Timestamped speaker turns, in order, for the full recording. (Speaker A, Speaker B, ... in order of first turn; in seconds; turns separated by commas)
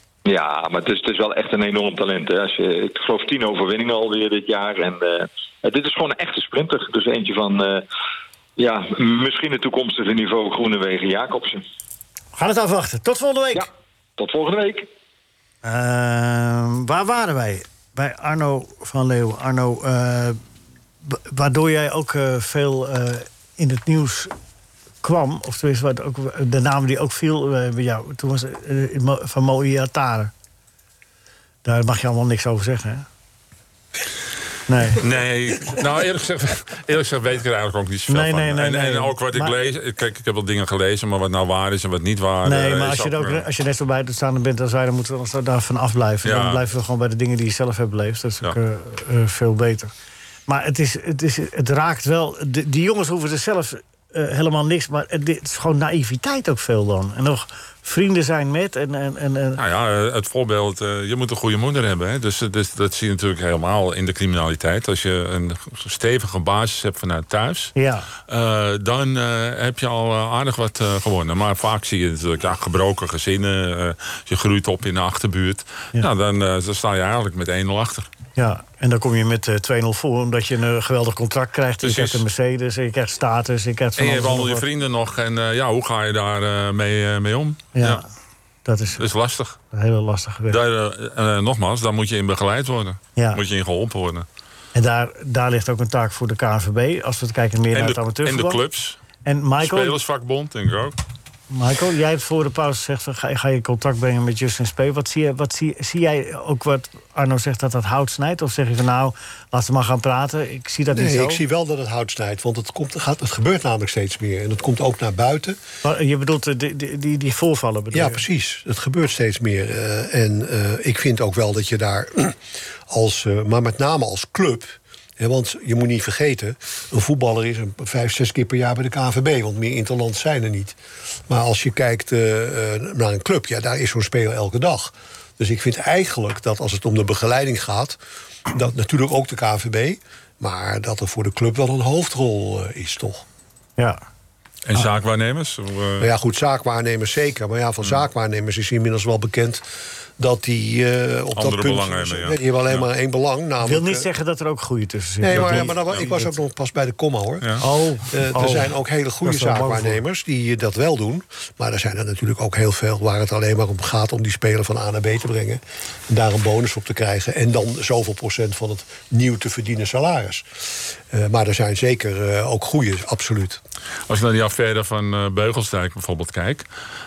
Speaker A: 0.2-7.8, Speaker A: 8.6-11.6, Speaker B: 12.3-13.7, Speaker A: 13.5-14.9, Speaker B: 15.6-20.4, Speaker B: 21.0-24.3, Speaker B: 25.0-30.3, Speaker B: 31.6-33.0, Speaker B: 34.7-35.0, Speaker C: 35.0-43.4, Speaker B: 38.1-39.5, Speaker B: 42.4-49.9, Speaker C: 46.2-46.6, Speaker B: 50.5-59.6, Speaker C: 59.5-67.7, Speaker B: 67.7-68.1, Speaker C: 68.3-78.1, Speaker B: 78.3-84.6, Speaker C: 81.8-82.2, Speaker C: 84.0-88.0, Speaker B: 87.7-88.0, Speaker B: 88.6-89.0, Speaker C: 89.0-89.6, Speaker B: 89.7-90.6, Speaker C: 90.5-94.2, Speaker B: 93.2-93.4, Speaker B: 94.7-98.6, Speaker C: 97.7-99.0, Speaker B: 99.2-100.0, Speaker C: 99.6-101.0, Speaker B: 101.5-111.4, Speaker D: 110.9-115.6, Speaker B: 115.8-118.2, Speaker D: 117.9-143.2, Speaker C: 144.7-146.1, Speaker D: 146.0-149.6, Speaker D: 150.2-154.1, Speaker C: 151.3-152.9, Speaker B: 153.6-156.3, Speaker D: 155.2-170.4, Speaker C: 155.3-156.1, Speaker B: 157.6-160.0, Speaker D: 171.1-173.6, Speaker C: 174.1-176.7